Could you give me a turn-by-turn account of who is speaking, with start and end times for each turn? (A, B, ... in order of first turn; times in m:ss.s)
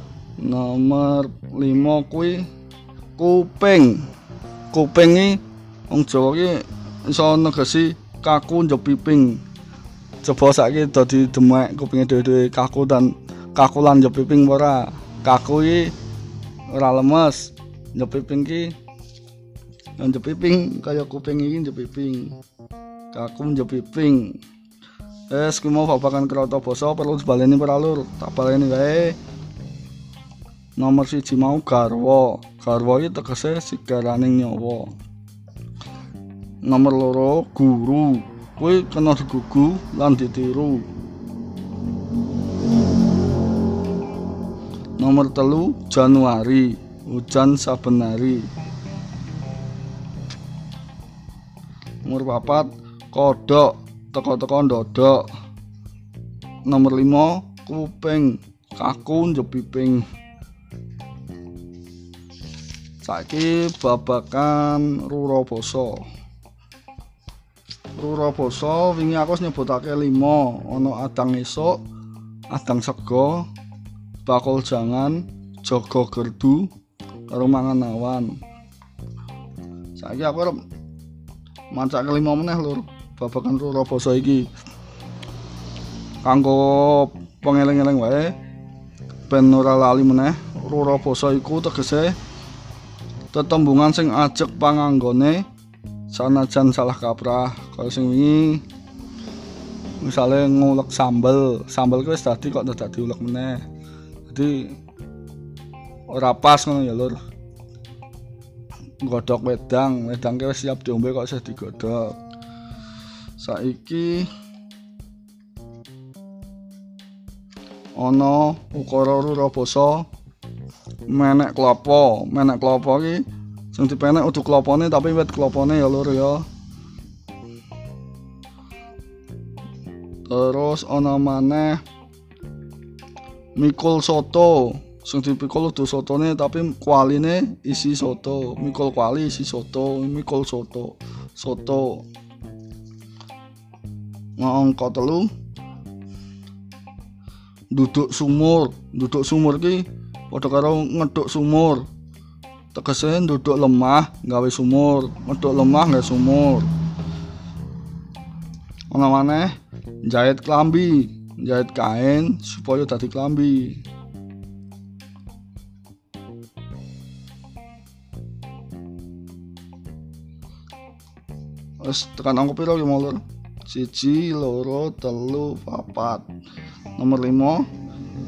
0:00.4-0:02.5 A
0:03.2-0:04.1 A
0:04.7-0:09.4 A
0:10.2-0:15.9 A
0:16.7-0:18.8 A
0:20.0-0:22.4 A
0:23.1-0:24.4 A
0:25.3-0:29.2 A
0:30.8-0:35.0 A
0:36.6-0:40.9 A
0:45.0-0:48.5 A
0:52.0-0:55.3 A
0:56.7-1:00.0 A
1:03.0-1:06.1 A
1:08.0-1:11.8 A
1:12.5-1:13.5 A
1:14.2-1:16.7 A
1:17.3-1:18.4 A
1:20.0-1:20.6 A
1:21.7-1:24.5 A
1:26.2-1:28.4 A
1:29.3-1:32.2 A
1:33.3-1:35.5 A
1:36.1-1:38.6 A
1:40.0-1:43.6 A
1:44.3-1:44.8 A
1:46.1-1:47.2 A
1:49.0-1:52.2 A
1:53.4-1:54.3 A
1:58.0-2:00.1 A
2:01.1-2:06.5 A
2:10.3-2:11.8 A
2:13.6-2:22.1 A
2:24.4-2:25.3 A
2:27.7-2:31.9 A
2:32.7-2:36.7 A
2:38.9-2:43.8 A
2:51.8-2:56.3 A
2:57.0-2:57.7 A